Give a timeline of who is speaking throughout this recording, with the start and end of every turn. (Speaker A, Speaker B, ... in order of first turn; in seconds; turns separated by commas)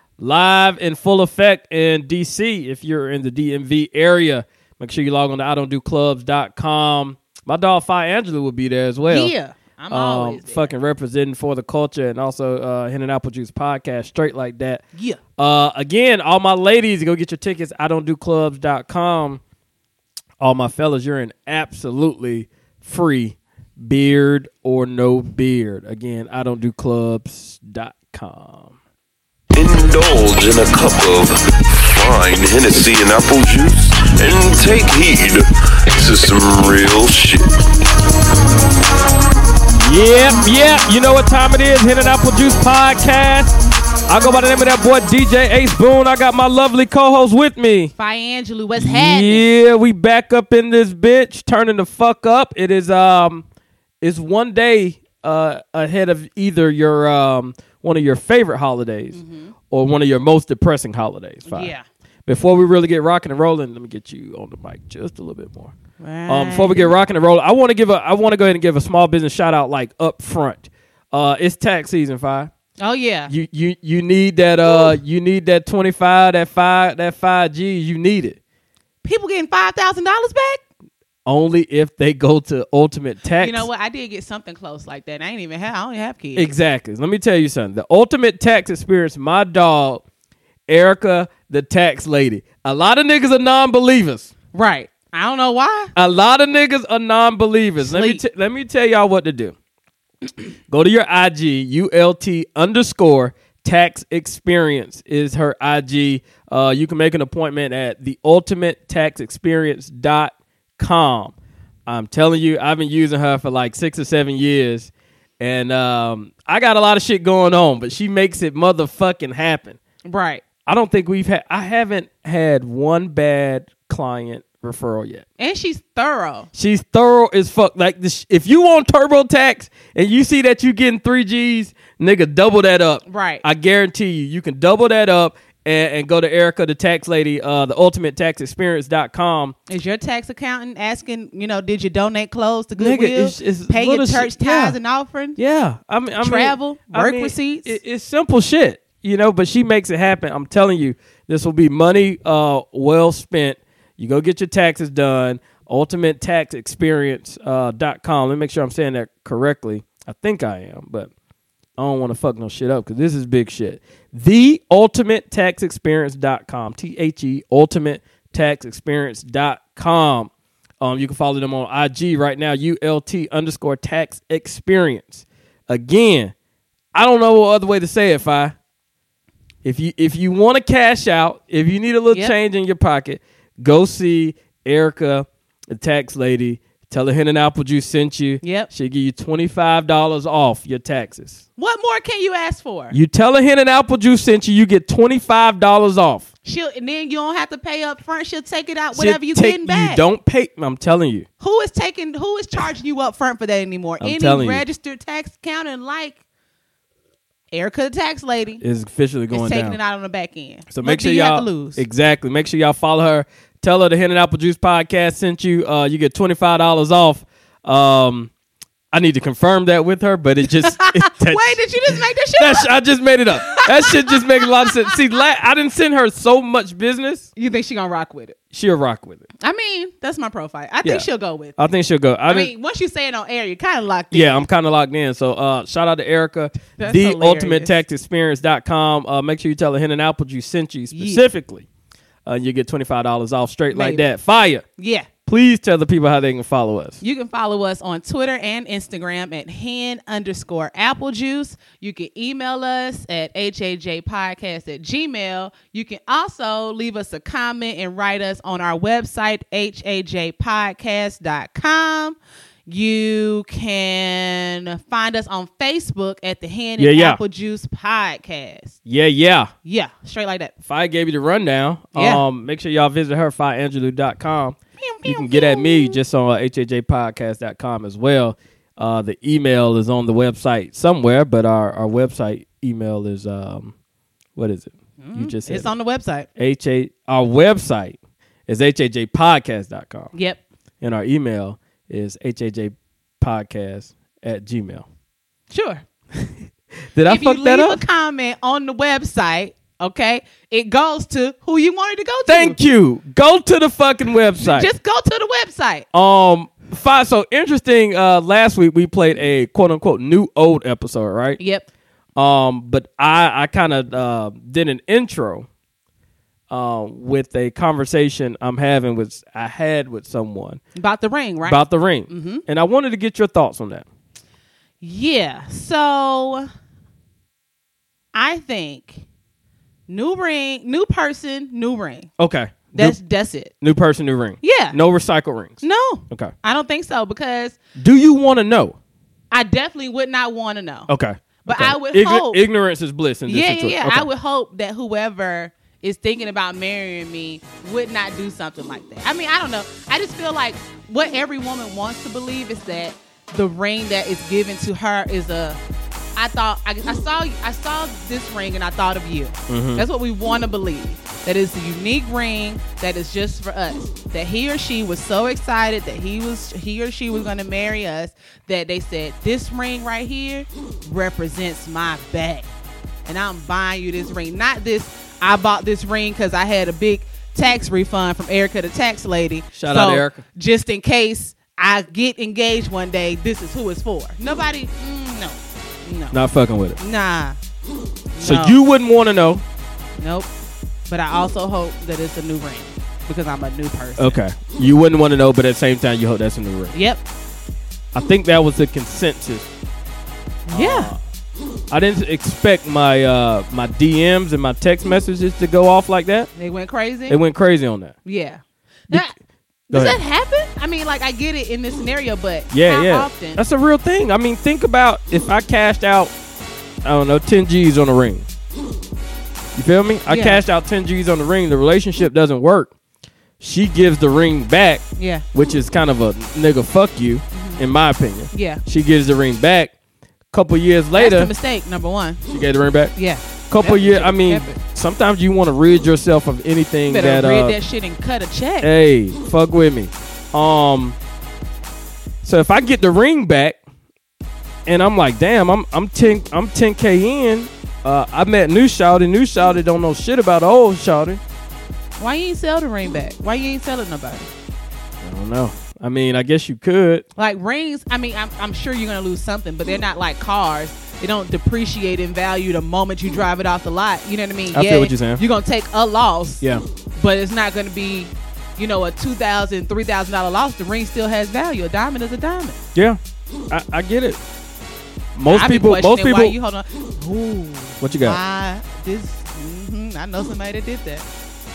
Speaker A: 0.2-9.3, Speaker B: 9.1-10.7, Speaker A: 9.9-14.8, Speaker B: 14.9-15.2, Speaker A: 15.4-19.4, Speaker A: 20.4-28.8, Speaker C: 29.5-37.6, Speaker A: 39.8-43.6, Speaker A: 44.1-47.9, Speaker B: 48.0-49.5, Speaker A: 48.8-53.4, Speaker A: 54.0-59.2, Speaker B: 59.1-59.5, Speaker A: 59.7-61.7, Speaker B: 61.5-61.9, Speaker A: 62.3-65.7, Speaker B: 66.0-66.9, Speaker A: 66.3-72.5, Speaker B: 72.8-73.3, Speaker A: 73.3-78.4, Speaker B: 74.7-75.0, Speaker B: 79.0-80.6, Speaker A: 81.3-83.7, Speaker B: 83.4-86.5, Speaker A: 86.3-90.0, Speaker A: 90.7-94.3, Speaker B: 94.5-95.9, Speaker A: 96.0-99.5, Speaker B: 97.8-98.2, Speaker A: 100.7-111.3, Speaker A: 111.9-119.8, Speaker B: 120.0-120.5, Speaker A: 120.7-125.2, Speaker B: 125.4-126.5, Speaker A: 126.5-139.6, Speaker B: 133.1-133.4, Speaker B: 139.7-145.4, Speaker A: 142.8-144.8, Speaker A: 145.4-161.1, Speaker B: 146.2-147.8, Speaker A: 161.8-176.3, Speaker A: 176.9-178.6, Speaker A: 179.6-191.4, Speaker B: 188.4-188.7, Speaker B: 191.6-193.0, Speaker A: 192.9-196.3, Speaker B: 196.4-200.0, Speaker A: 198.9-201.3, Speaker B: 201.4-206.2, Speaker A: 204.0-204.6, Speaker B: 207.5-208.6, Speaker A: 208.6-209.8, Speaker B: 209.3-211.8, Speaker A: 210.7-218.3, Speaker A: 218.9-221.7, Speaker B: 220.6-222.7, Speaker A: 222.4-227.3, Speaker B: 223.5-225.0, Speaker B: 227.4-228.4, Speaker A: 228.5-229.3, Speaker B: 229.4-231.6, Speaker A: 231.6-232.5, Speaker B: 232.3-234.4, Speaker A: 234.1-241.7, Speaker B: 236.8-237.8, Speaker B: 240.9-241.2, Speaker A: 242.2-244.7, Speaker B: 243.7-244.1, Speaker B: 244.8-245.1, Speaker A: 245.3-247.0, Speaker B: 247.0-268.8, Speaker A: 266.8-267.2, Speaker A: 268.9-269.5, Speaker B: 269.6-270.5, Speaker A: 270.6-283.7, Speaker B: 271.9-272.2, Speaker B: 274.8-276.0, Speaker A: 284.4-285.7, Speaker B: 285.0-286.3, Speaker A: 286.4-290.1, Speaker B: 290.1-290.4, Speaker A: 290.8-294.9, Speaker B: 295.5-295.9, Speaker A: 296.9-297.8, Speaker B: 297.1-302.6, Speaker A: 302.3-304.7, Speaker B: 304.4-305.9, Speaker A: 305.9-311.4, Speaker B: 311.4-311.7, Speaker A: 312.2-315.5, Speaker A: 316.5-320.6, Speaker B: 320.8-322.4, Speaker A: 321.4-323.9, Speaker B: 324.8-326.5, Speaker B: 328.1-329.0, Speaker B: 329.9-332.1, Speaker A: 332.2-333.0, Speaker B: 332.7-333.5, Speaker A: 333.6-335.6, Speaker B: 334.4-334.8, Speaker B: 335.6-337.6, Speaker A: 337.8-338.8, Speaker B: 339.3-340.9, Speaker A: 340.9-344.1, Speaker B: 341.4-342.4, Speaker B: 343.3-355.6, Speaker B: 356.2-372.5, Speaker A: 359.5-359.8, Speaker B: 373.1-386.2, Speaker A: 379.6-380.2, Speaker A: 386.1-386.8, Speaker B: 386.8-387.4, Speaker B: 388.1-388.6, Speaker A: 388.2-389.4, Speaker B: 390.0-390.3, Speaker B: 390.9-394.2, Speaker A: 394.0-396.8, Speaker B: 396.7-397.0, Speaker A: 397.9-399.5, Speaker B: 400.5-400.9, Speaker A: 400.5-401.0, Speaker A: 401.7-406.3, Speaker B: 406.4-407.2, Speaker A: 407.1-407.9, Speaker B: 408.1-409.1, Speaker B: 409.7-413.4, Speaker A: 409.7-410.0, Speaker A: 412.5-416.1, Speaker A: 416.8-418.3, Speaker A: 419.6-422.7, Speaker B: 420.1-420.4, Speaker A: 423.4-429.7, Speaker B: 425.0-425.2, Speaker B: 427.3-427.7, Speaker B: 428.3-428.6, Speaker A: 430.3-431.3, Speaker B: 430.9-432.2, Speaker A: 432.3-432.9, Speaker B: 433.0-434.6, Speaker A: 433.5-437.6, Speaker B: 436.9-438.7, Speaker A: 438.6-441.0, Speaker A: 442.2-443.6, Speaker A: 444.7-451.2, Speaker B: 452.0-454.3, Speaker A: 455.0-457.1, Speaker B: 457.2-466.4, Speaker A: 464.5-465.2, Speaker B: 467.0-472.6, Speaker A: 473.5-474.2, Speaker A: 475.2-476.4, Speaker B: 475.3-481.1, Speaker A: 477.8-478.2